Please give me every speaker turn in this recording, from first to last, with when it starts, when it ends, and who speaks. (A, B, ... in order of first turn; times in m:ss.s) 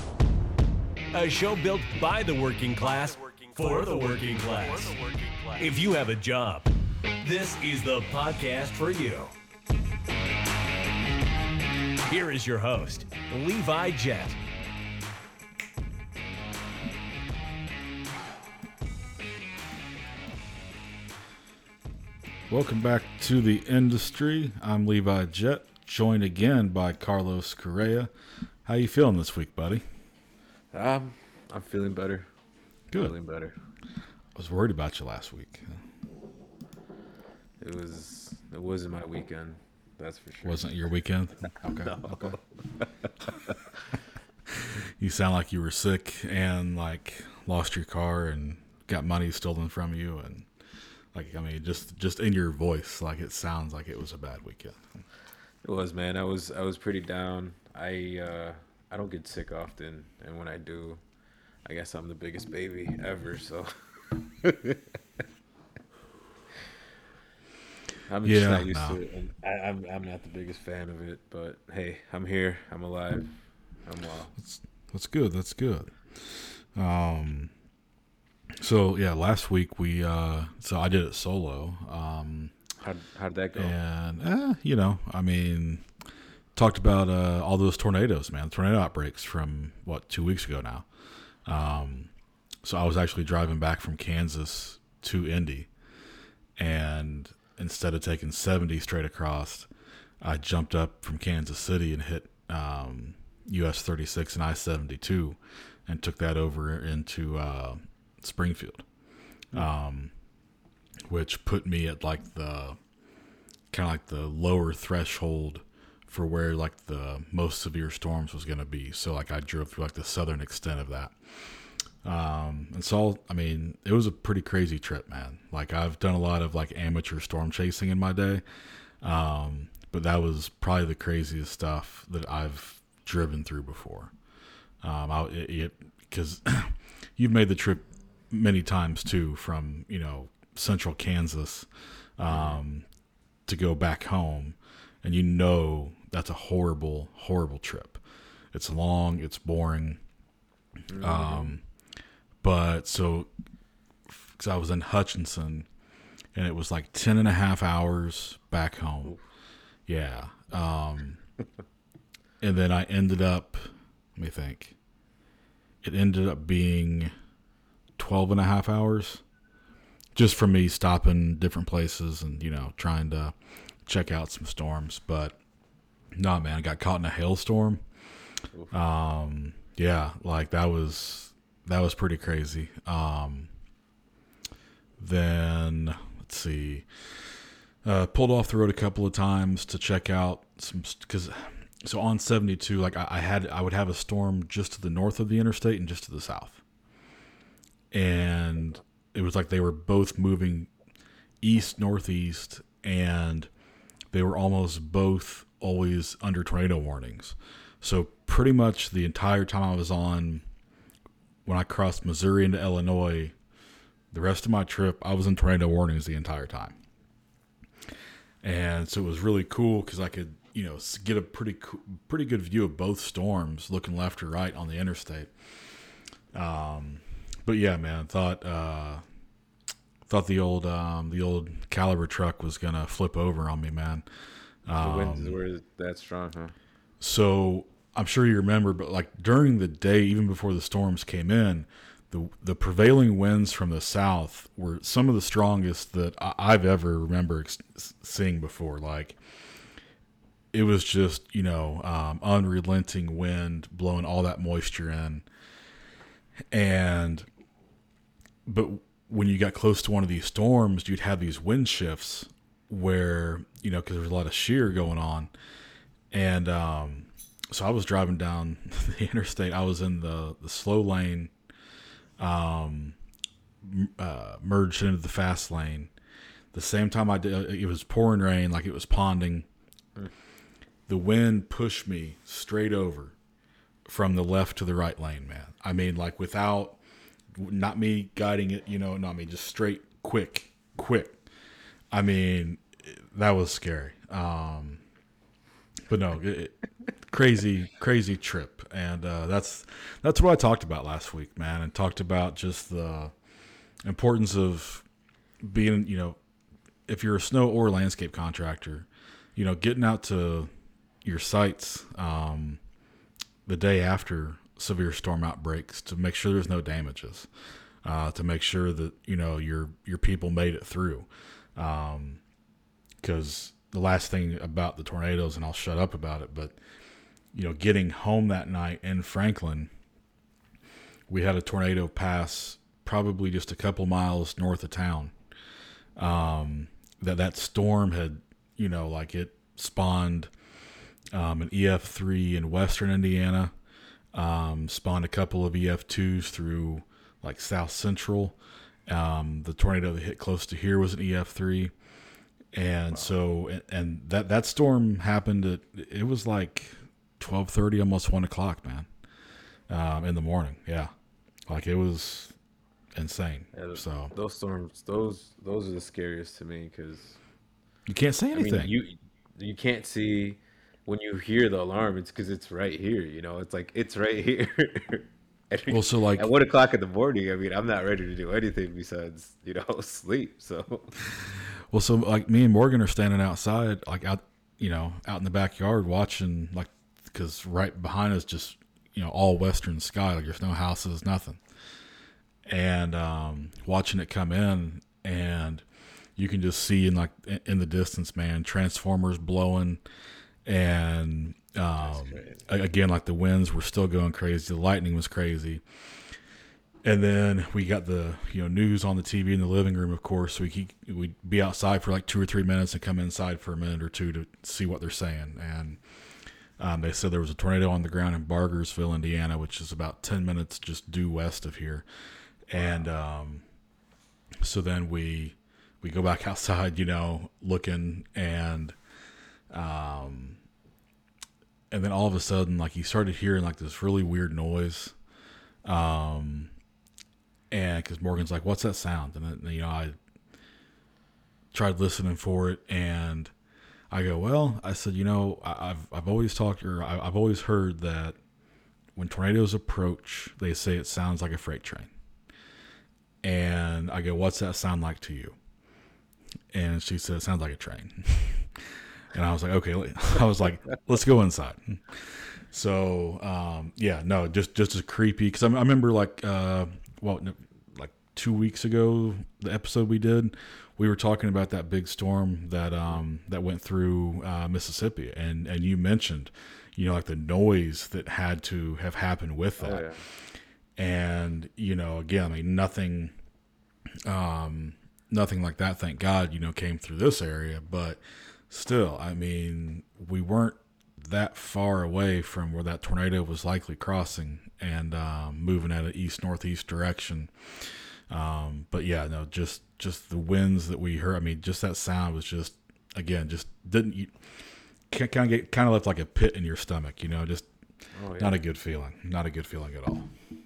0:01.1-0:06.7 A
0:07.2-0:09.3 A
0:12.1-0:14.4 A
0:22.5-0:28.1 B
0:28.6-0:29.8 B
0:30.7-0:32.3 C
0:32.9-0:33.5 C
0:34.3-0:35.8 B
0:37.6-0:40.7 C
0:40.4-0:42.3 B
0:41.6-0:43.6 C
0:44.6-0:50.5 B
0:51.1-0:54.8 B
0:55.6-1:01.0 C
1:01.6-1:04.8 C
1:08.1-1:13.3 C
1:08.2-1:09.0 B
1:13.8-1:14.3 C
1:14.4-1:17.5 B
1:18.6-1:22.5 B
1:22.8-1:23.7 C
1:23.6-1:25.9 B
1:26.5-1:30.9 B
1:31.4-1:32.1 B
1:32.6-1:35.7 B
1:36.6-1:39.7 B
1:40.2-1:48.8 B
1:49.5-1:50.1 B
1:51.1-1:52.8 B
1:53.7-2:08.4 B
2:09.0-2:14.1 B
2:14.8-2:22.8 B
2:22.3-2:22.6 C
2:23.5-2:28.0 B
2:28.5-2:30.0 B
2:30.9-2:31.5 C
2:31.0-2:31.6 B
2:32.4-2:33.3 B
2:34.1-2:35.7 B
2:36.3-2:39.2 B
2:39.9-2:41.2 B
2:42.4-2:44.8 B
2:45.8-2:47.1 B
2:48.0-2:49.2 B
2:50.1-2:53.3 B
2:53.8-2:55.4 B
2:56.1-2:57.8 B
2:58.7-3:03.5 B
3:05.0-3:16.6 B
3:17.9-3:20.7 B
3:21.4-3:23.5 B
3:24.1-3:30.4 B
3:31.4-3:33.3 B
3:34.1-3:36.8 B
3:38.4-3:45.3 B
3:46.3-3:49.0 B
3:50.0-3:54.0 B
3:54.6-3:55.4 B
3:54.8-3:56.5 C
3:57.0-4:09.2 B
4:10.5-4:15.2 B
4:16.5-4:17.3 B
4:18.4-4:25.3 B
4:26.1-4:31.3 B
4:32.2-4:33.0 B
4:33.6-4:35.9 B
4:36.5-4:39.5 B
4:40.9-4:43.2 B
4:43.9-4:46.8 B
4:47.3-4:51.2 B
4:51.9-4:54.8 B
4:55.9-5:03.1 B
5:03.8-5:04.8 B
5:05.4-5:06.2 B
5:06.9-5:10.5 B
5:11.0-5:12.6 B
5:13.4-5:17.3 B
5:17.8-5:22.2 B
5:23.0-5:26.6 B
5:27.3-5:29.7 B
5:31.1-5:35.1 B
5:36.0-5:40.3 B
5:41.1-5:43.5 B
5:44.1-5:51.7 B
5:52.5-5:58.9 B
5:59.7-6:00.9 B
6:01.5-6:02.4 B
6:03.0-6:04.1 B
6:03.5-6:07.2 C
6:07.9-6:08.7 B
6:08.3-6:20.9 C
6:15.7-6:16.3 B
6:21.2-6:31.4 B
6:32.4-6:35.6 B
6:36.2-6:39.8 B
6:40.4-6:45.6 B
6:41.8-6:42.4 C
6:46.8-6:55.8 B
6:56.6-7:01.8 B
7:02.5-7:03.4 B
7:04.4-7:08.8 B
7:09.5-7:10.4 B
7:11.7-7:15.0 B
7:15.6-7:16.5 B
7:17.5-7:20.0 B
7:21.5-7:23.3 B
7:23.9-7:28.2 B
7:28.9-7:31.9 B
7:33.2-7:35.4 B
7:36.5-7:59.9 B
7:59.6-8:00.0 C
8:00.8-8:03.1 B
8:04.0-8:24.2 B
8:24.9-8:27.5 B
8:27.9-8:28.4 C
8:28.2-8:30.1 B